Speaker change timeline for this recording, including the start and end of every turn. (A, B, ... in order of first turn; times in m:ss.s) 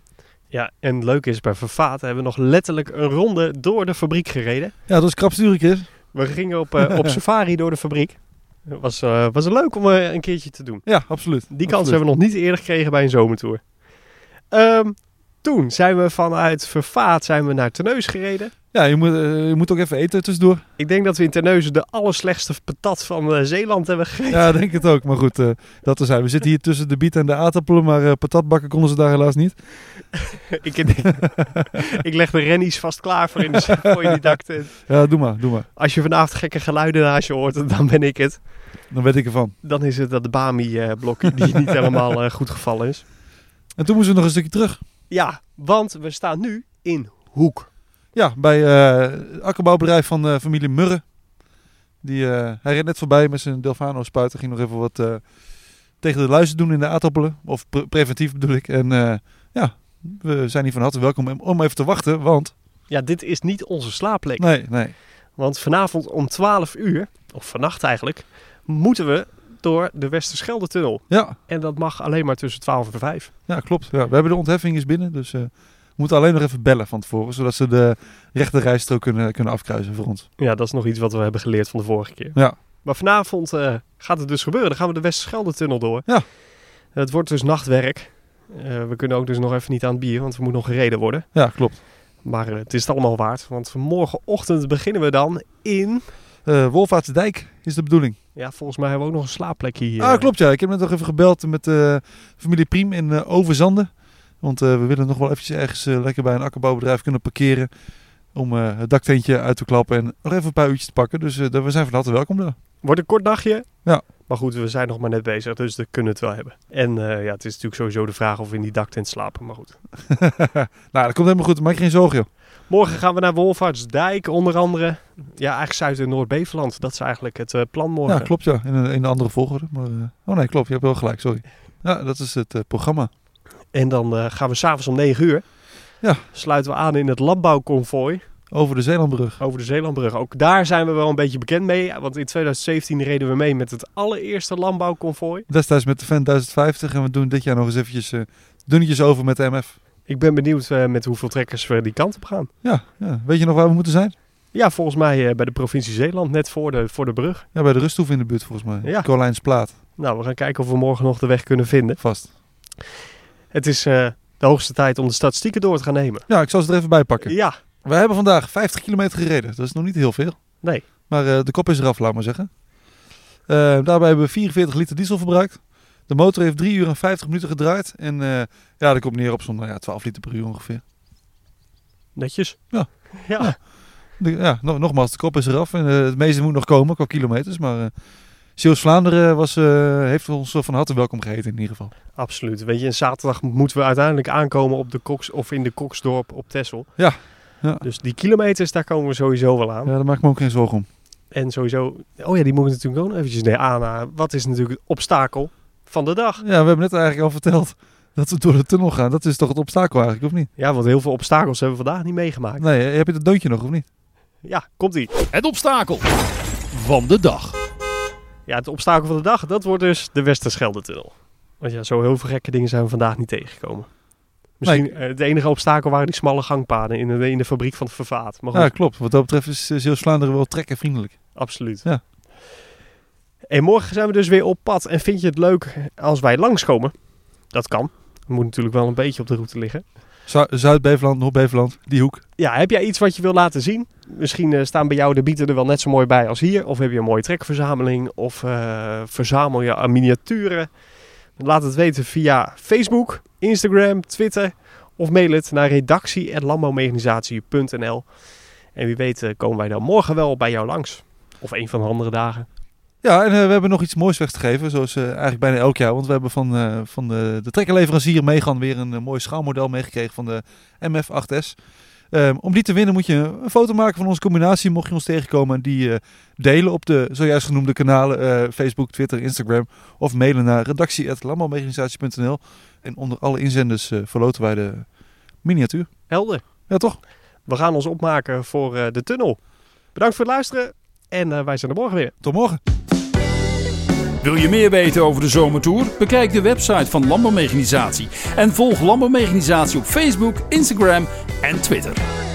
0:00.5-0:04.7 A
0:04.9-0:05.9 B
0:06.1-0:10.9 A
0:06.8-0:07.2 B
0:10.9-0:12.0 B
0:11.5-0:13.6 A
0:14.5-0:18.5 A
0:18.7-0:20.6 B
0:20.8-0:24.6 A
0:24.3-0:29.6 B
0:30.2-0:34.8 A
0:33.8-0:34.3 B
0:34.8-0:35.7 B
0:35.8-0:38.4 A
0:38.9-0:39.6 B
0:39.6-0:43.0 A
0:43.8-0:44.8 B
0:45.1-0:47.7 A
0:48.2-0:51.0 B
0:52.0-0:55.2 B
0:56.0-1:02.5 B
1:02.9-1:04.5 A
1:04.4-1:05.0 B
1:05.4-1:13.3 A
1:11.1-1:11.4 B
1:13.5-1:20.3 B
1:20.4-1:26.1 A
1:26.9-1:31.3 A
1:31.3-1:31.8 B
1:32.2-1:36.0 A
1:36.4-1:38.2 B
1:38.4-1:40.3 A
1:40.0-1:43.9 B
1:44.4-1:47.7 B
1:48.3-1:52.6 B
1:52.8-1:53.7 A
1:54.2-1:59.8 A
2:00.1-2:02.3 B
2:02.7-2:08.3 A
2:08.1-2:13.1 B
2:13.7-2:15.4 A
2:16.3-2:18.2 A
2:18.5-2:19.4 B
2:19.4-2:25.5 A
2:25.5-2:29.8 B
2:30.1-2:32.5 A
2:32.6-2:34.1 B
2:34.5-2:37.5 A
2:37.5-2:39.7 B
2:40.0-2:42.0 A
2:42.0-2:42.3 B
2:43.5-2:46.2 A
2:46.3-2:50.4 B
2:47.2-2:47.6 A
2:51.1-2:52.5 B
2:53.5-3:00.8 B
3:02.2-3:02.6 A
3:02.7-3:03.6 B
3:03.1-3:03.5 A
3:04.2-3:07.9 B
3:08.6-3:11.9 B
3:12.2-3:16.9 A
3:17.0-3:17.8 B
3:17.8-3:19.9 A
3:19.9-3:20.9 B
3:21.3-3:26.4 A
3:26.4-3:30.5 B
3:30.6-3:32.6 A
3:32.6-3:33.8 B
3:34.4-3:35.1 A
3:35.3-3:36.1 C
3:36.7-3:37.6 C
3:38.5-3:43.9 A
3:44.6-3:48.7 A
3:44.6-3:44.9 B
3:48.5-3:51.2 B
3:51.4-3:51.8 A
3:53.5-3:56.9 A
3:57.5-3:59.8 A
4:00.3-4:02.2 B
4:02.4-4:10.7 A
4:11.4-4:18.1 A
4:18.8-4:22.5 A
4:23.0-4:31.6 B
4:32.1-4:44.8 B
4:45.4-4:45.9 B
4:46.1-4:46.4 A
4:46.7-4:47.0 B
4:47.5-4:49.4 A
4:50.0-4:52.1 A
4:52.2-4:52.6 B
4:54.2-5:02.0 C